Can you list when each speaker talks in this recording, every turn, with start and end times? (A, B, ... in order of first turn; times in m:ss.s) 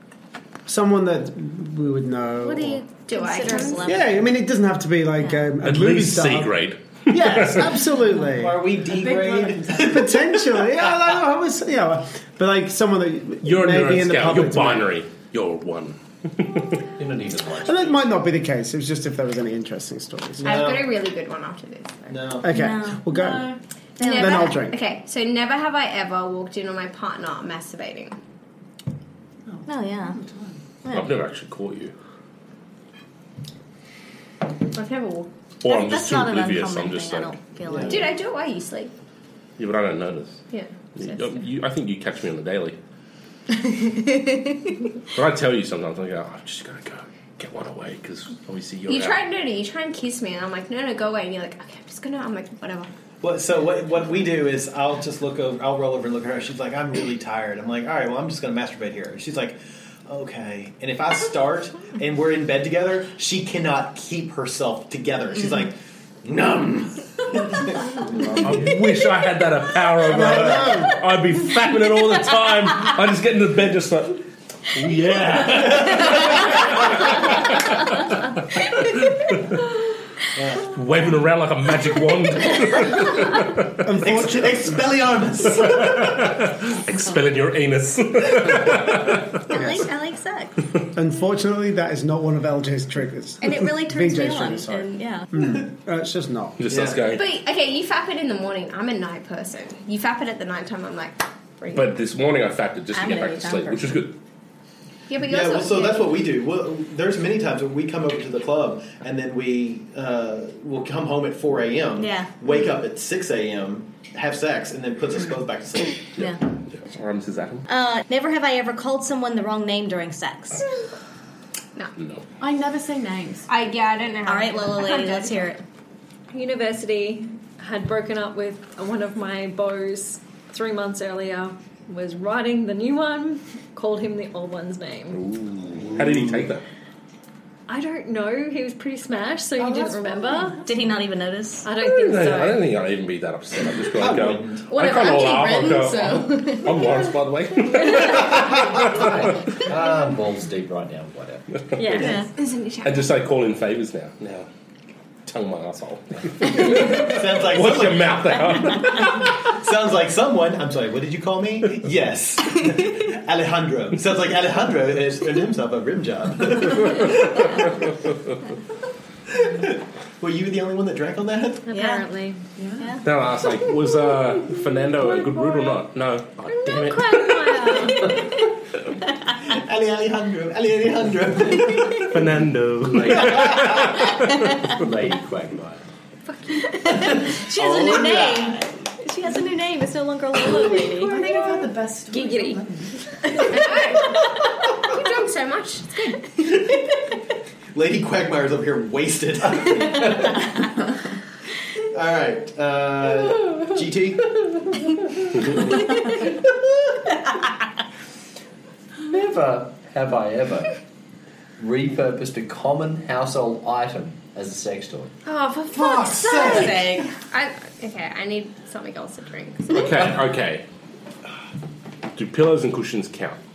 0:00.6-0:02.8 A
0:02.5-0:03.9 B
0:02.6-0:04.2 C
0:03.8-0:06.5 A
0:05.2-0:05.5 C
0:05.6-0:07.9 D
0:07.1-0:08.7 A
0:07.2-0:07.6 E
0:08.2-0:11.1 E
0:08.8-0:10.1 F
0:09.8-0:15.0 A
0:13.4-0:16.8 D
0:17.0-0:18.0 G
0:17.6-0:20.7 A
0:20.4-0:22.3 B
0:20.4-0:21.0 E
0:22.1-0:22.5 E
0:22.4-0:24.8 A
0:22.5-0:23.4 C
0:24.0-0:28.2 B
0:24.0-0:24.6 C
0:29.5-0:30.6 F
0:29.6-0:30.2 C
0:30.8-0:31.1 C
0:30.9-0:31.9 D
0:34.7-0:35.3 B
0:35.6-0:37.4 D
0:35.6-0:38.2 C
0:37.7-0:38.0 E
0:37.8-0:38.9 B
0:39.6-0:40.4 D
0:40.5-0:41.3 B
0:41.0-0:42.8 D
0:45.1-0:49.2 D
0:48.9-0:52.9 B
0:53.2-1:08.3 E
1:08.1-1:08.6 A
1:08.4-1:17.9 D
1:10.0-1:11.0 A
1:15.5-1:16.8 E
1:19.1-1:19.4 D
1:20.3-1:20.7 E
1:20.6-1:23.8 D
1:23.8-1:24.9 A
1:24.0-1:26.4 E
1:25.6-1:29.3 D
1:29.5-1:30.6 C
1:29.5-1:29.8 A
1:30.9-1:36.6 A
1:33.4-1:35.4 C
1:36.6-1:37.2 D
1:36.7-1:37.1 E
1:37.1-1:41.9 B
1:41.7-1:44.1 D
1:42.9-1:44.0 C
1:45.1-1:46.2 B
1:45.2-1:56.1 E
1:52.0-1:52.3 C
1:56.2-1:57.6 D
1:57.7-2:00.7 C
2:02.0-2:02.2 D
2:02.4-2:03.5 F
2:03.5-2:05.5 B
2:04.2-2:05.6 C
2:06.3-2:15.2 H
2:15.1-2:16.6 D
2:17.7-2:20.6 H
2:19.6-2:20.5 F
2:20.6-2:21.7 C
2:21.6-2:22.6 H
2:21.8-2:29.3 D
2:24.0-2:24.7 E
2:24.7-2:27.0 C
2:28.0-2:28.3 C
2:28.4-2:31.6 G
2:31.6-2:32.1 D
2:31.8-2:32.2 H
2:31.9-2:32.3 C
2:32.1-2:33.2 B
2:32.8-2:34.5 D
2:35.2-2:39.3 D
2:36.5-2:38.8 E
2:39.5-2:47.7 E
2:49.3-2:51.6 E
2:51.7-2:52.4 H
2:51.7-2:52.1 C
2:52.6-2:52.9 F
2:52.8-2:53.0 C
2:53.0-2:57.8 D
2:56.5-2:58.1 H
2:59.4-3:02.3 E
3:02.1-3:04.7 D
3:02.9-3:03.9 G
3:04.8-3:05.8 G
3:06.2-3:06.6 H
3:06.7-3:11.5 C
3:07.5-3:08.6 E
3:10.8-3:13.0 F
3:12.1-3:12.6 H
3:13.4-3:14.2 B
3:14.8-3:16.2 B
3:17.7-3:20.4 E
3:21.9-3:24.9 E
3:29.0-3:30.8 G
3:31.6-3:35.1 G
3:35.2-3:40.1 B
3:35.7-3:37.0 E
3:36.0-3:37.1 C
3:39.7-3:40.6 D
3:42.1-3:43.4 D